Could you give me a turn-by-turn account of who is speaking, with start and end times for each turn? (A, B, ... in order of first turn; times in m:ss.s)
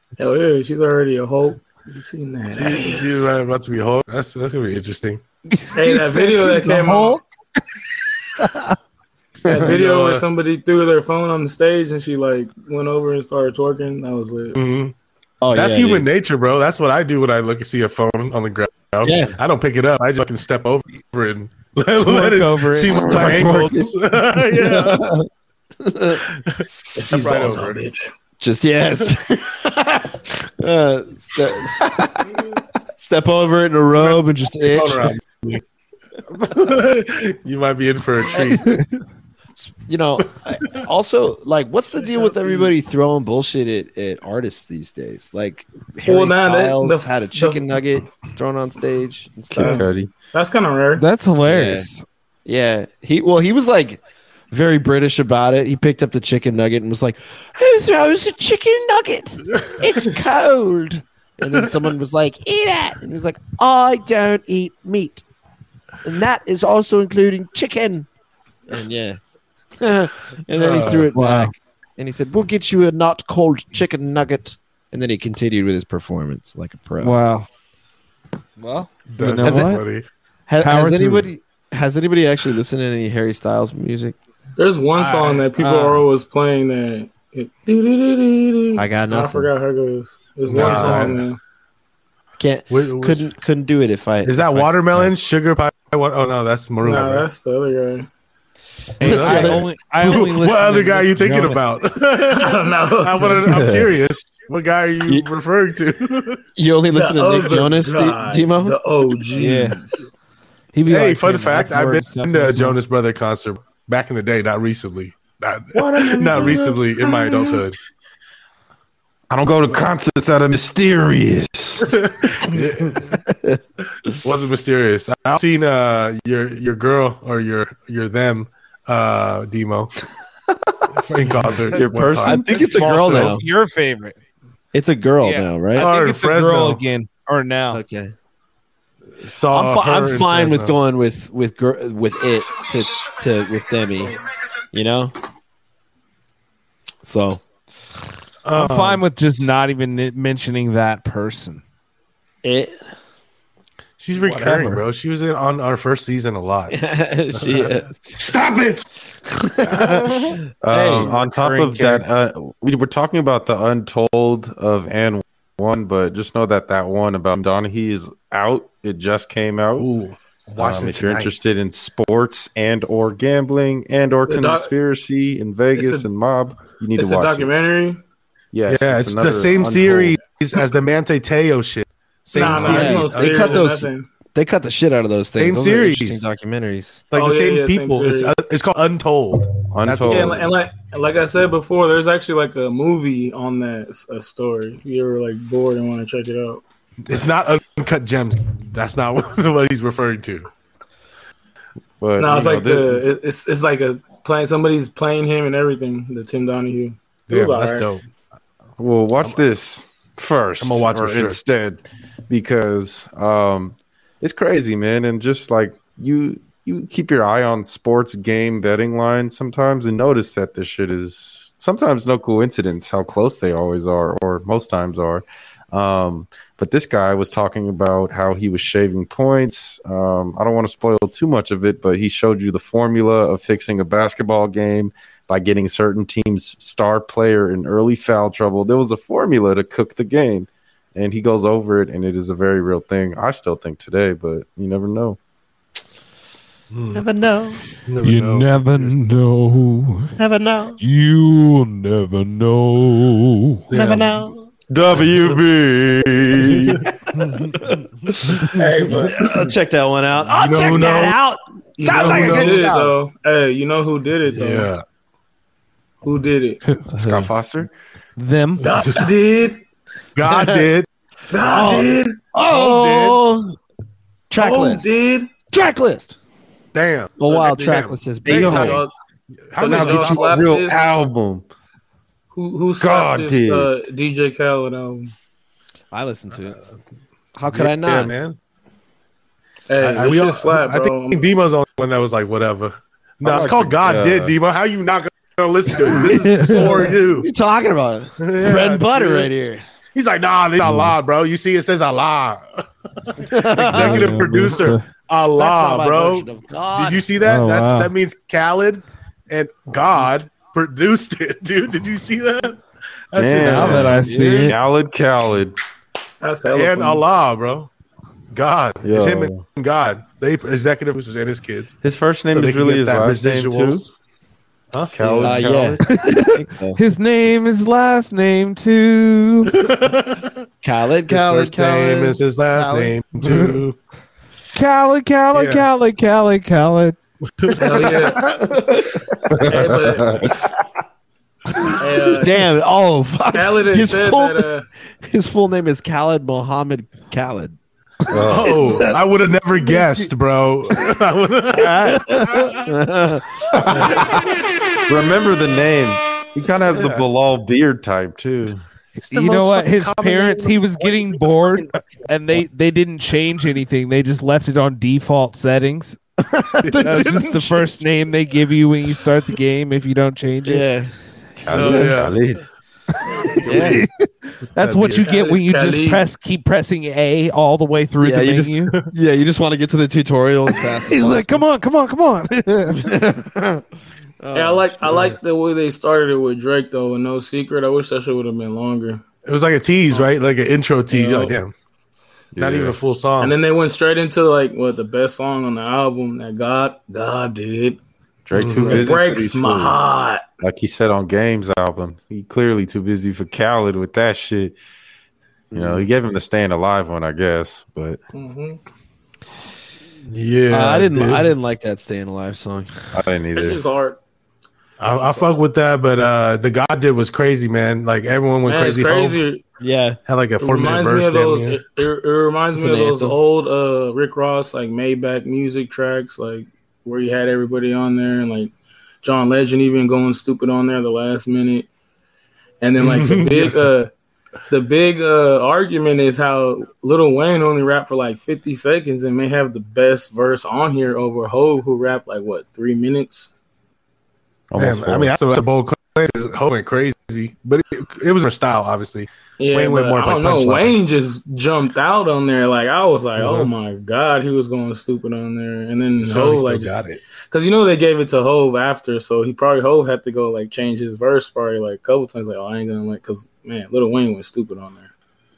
0:00.2-0:03.4 A
0:02.5-0:05.2 B
0:05.5-0:07.2 C
0:05.7-0:07.2 A
0:09.4-0:14.6 A
0:09.5-0:09.7 D
0:09.6-0:10.2 B
0:14.5-0:15.0 B
0:15.4-0:16.1 D
0:15.5-0:25.0 B
0:19.0-0:19.4 D
0:22.0-0:23.3 C
0:22.8-0:25.3 D
0:25.8-0:26.2 D
0:26.2-0:27.8 B
0:27.0-0:28.1 A
0:28.4-0:35.2 D
0:34.0-0:35.6 B
0:36.4-0:38.8 B
0:39.6-0:49.9 D
0:42.0-0:42.7 A
0:46.1-0:47.6 A
0:49.5-0:50.1 E
0:49.6-0:51.0 A
0:51.0-0:52.0 C
0:51.4-0:51.9 D
0:52.5-1:05.2 D
1:06.0-1:08.1 D
1:08.7-1:09.2 D
1:09.8-1:17.2 D
1:10.5-1:11.1 B
1:11.1-1:11.5 C
1:17.0-1:17.5 C
1:18.6-1:19.9 C
1:19.1-1:20.1 B
1:19.4-1:19.7 D
1:20.5-1:24.2 D
1:20.6-1:21.3 C
1:24.6-1:31.4 A
1:25.0-1:25.4 B
1:25.6-1:26.0 C
1:28.8-1:29.5 D
1:30.5-1:31.3 B
1:30.7-1:31.0 C
1:32.4-1:34.8 D
1:32.7-1:33.3 B
1:34.2-1:37.3 B
1:36.8-1:38.1 A
1:39.0-1:41.6 C
1:39.0-1:39.7 D
1:39.0-1:46.4 B
1:42.3-1:43.5 A
1:46.6-1:48.8 D
1:46.9-1:50.1 A
1:49.4-1:49.8 C
1:50.7-1:52.8 C
1:50.9-1:57.8 B
1:56.0-1:56.8 D
1:56.3-1:56.6 A
1:59.3-2:01.9 E
2:01.8-2:03.2 B
2:03.3-2:03.6 D
2:04.2-2:09.9 B
2:10.9-2:12.4 B
2:11.6-2:14.2 C
2:11.7-2:13.2 E
2:12.2-2:13.4 D
2:14.7-2:15.9 D
2:15.2-2:17.8 C
2:15.8-2:16.8 B
2:17.7-2:18.2 D
2:19.2-2:20.8 B
2:19.5-2:24.2 D
2:24.7-2:25.2 D
2:27.0-2:27.4 D
2:28.4-2:29.0 B
2:28.5-2:31.6 C
2:32.4-2:32.8 D
2:34.0-2:36.8 B
2:34.2-2:34.8 C
2:36.7-2:38.0 D
2:37.4-2:38.8 B
2:39.4-2:41.2 D
2:40.6-2:49.9 E
2:40.7-2:42.1 C
2:49.8-2:51.3 B
2:50.6-2:57.5 E
2:54.3-2:54.7 A
2:55.8-2:56.1 A
2:57.0-2:58.0 A
2:58.5-3:00.2 E
2:58.7-3:03.7 B
3:02.3-3:04.1 A
3:02.4-3:07.1 D
3:05.4-3:06.3 B
3:07.1-3:10.5 B
3:07.1-3:08.3 A
3:09.7-3:10.5 E
3:10.1-3:16.6 A
3:17.0-3:20.5 B
3:22.0-3:23.1 E
3:22.2-3:27.9 A
3:27.3-3:28.0 B
3:28.8-4:05.2 E
3:30.6-3:31.4 B
4:06.7-4:07.0 B
4:06.9-4:07.6 D
4:07.8-4:09.0 B
4:08.0-4:10.2 C
4:10.2-4:10.8 D
4:10.8-4:13.7 C
4:13.7-4:14.2 B
4:13.7-4:14.5 D
4:14.7-4:16.8 E
4:16.5-4:16.8 B
4:17.2-4:17.5 C
4:17.6-4:22.9 D
4:18.6-4:19.3 A
4:20.3-4:21.2 B
4:21.8-4:24.7 A
4:21.8-4:22.8 B
4:24.3-4:24.8 B
4:26.0-4:26.6 A
4:26.6-4:27.2 C
4:26.9-4:27.7 E
4:28.2-4:28.7 C
4:28.6-4:29.6 A
4:28.7-4:29.1 B
4:30.2-4:30.9 B
4:30.2-4:30.7 D
4:31.3-4:32.2 A
4:31.4-4:33.6 D
4:32.4-4:33.2 B
4:34.3-4:34.8 D
4:34.4-4:35.3 A
4:35.5-4:36.2 D
4:36.7-4:38.8 B
4:37.2-4:38.8 D
4:37.3-4:38.9 A
4:38.3-4:38.8 E
4:39.5-4:40.4 B
4:39.6-4:40.9 A
4:39.6-4:41.5 E
4:42.3-4:45.1 A
4:42.8-4:43.7 E
4:45.9-4:46.6 D
4:47.4-4:48.1 D
4:47.5-4:48.4 B
4:49.7-4:51.2 A
4:49.8-4:57.3 B
4:53.2-4:54.4 E
4:55.8-4:59.6 D
4:56.1-4:56.8 C
4:58.2-4:59.3 B
4:59.9-5:14.0 B
5:00.6-5:00.9 C
5:03.2-5:04.3 D
5:03.6-5:04.8 C
5:05.4-5:07.1 D
5:07.2-5:07.9 C
5:13.2-5:15.6 E
5:13.4-5:14.6 C
5:13.7-5:14.6 D
5:16.2-5:17.0 A
5:16.5-5:17.7 B
5:18.3-5:21.8 B
5:18.8-5:19.4 E
5:21.8-5:23.8 E
5:22.3-5:23.9 B
5:24.7-5:25.4 B
5:24.9-5:25.8 E
5:25.2-5:26.8 D
5:25.9-5:29.6 C
5:29.5-5:30.4 B
5:30.6-5:33.0 D
5:31.1-5:33.8 B
5:34.6-5:37.0 C
5:35.3-5:35.7 B
5:37.4-5:37.9 B
5:37.5-5:39.2 D
5:37.6-5:38.3 A
5:39.4-5:40.4 E
5:39.5-5:40.3 A
5:41.6-5:44.5 D
5:41.8-5:42.5 A
5:43.3-5:44.7 A
5:45.0-5:47.6 D
5:48.1-5:48.8 E
5:48.2-5:52.6 B
5:51.8-5:52.5 C
5:52.6-5:53.4 D
5:53.5-5:54.2 E
5:54.9-5:58.6 E
5:56.7-5:57.0 B
5:59.0-6:06.0 C
5:59.0-6:01.7 B
6:06.3-6:07.5 D
6:06.6-6:07.4 B
6:06.8-6:10.6 C
6:10.4-6:12.1 D
6:11.4-6:12.4 E
6:11.5-6:12.2 B
6:13.4-6:13.8 D
6:13.4-6:18.8 C
6:13.5-6:13.8 B
6:14.6-6:15.1 B
6:15.0-6:16.0 A
6:18.0-6:21.4 D
6:20.9-6:22.9 C
6:22.7-6:23.6 D
6:24.2-6:24.9 D
6:24.3-6:29.0 A
6:29.2-6:31.5 B
6:30.9-6:31.4 A
6:32.4-6:32.8 E
6:32.4-6:33.4 B
6:33.2-6:37.8 A
6:38.3-6:44.6 E
6:38.3-6:38.9 B
6:38.6-6:40.2 A
6:45.5-6:45.9 D
6:45.5-6:48.0 E
6:48.1-6:48.6 A
6:50.1-6:51.3 B
6:50.5-6:52.7 D
6:52.9-6:53.6 E
6:53.4-6:54.0 A
6:54.8-6:59.2 B
6:58.5-6:59.4 A
6:59.6-7:00.0 D
7:00.1-7:01.6 B
7:00.4-7:11.7 A
7:02.6-7:03.2 D
7:12.6-7:13.9 A
7:12.8-7:13.6 B
7:14.5-7:23.3 A
7:24.5-7:25.2 E
7:24.6-7:30.7 B
7:29.4-7:36.8 A
7:33.2-7:33.5 B
7:36.0-7:37.0 B
7:37.3-7:44.9 A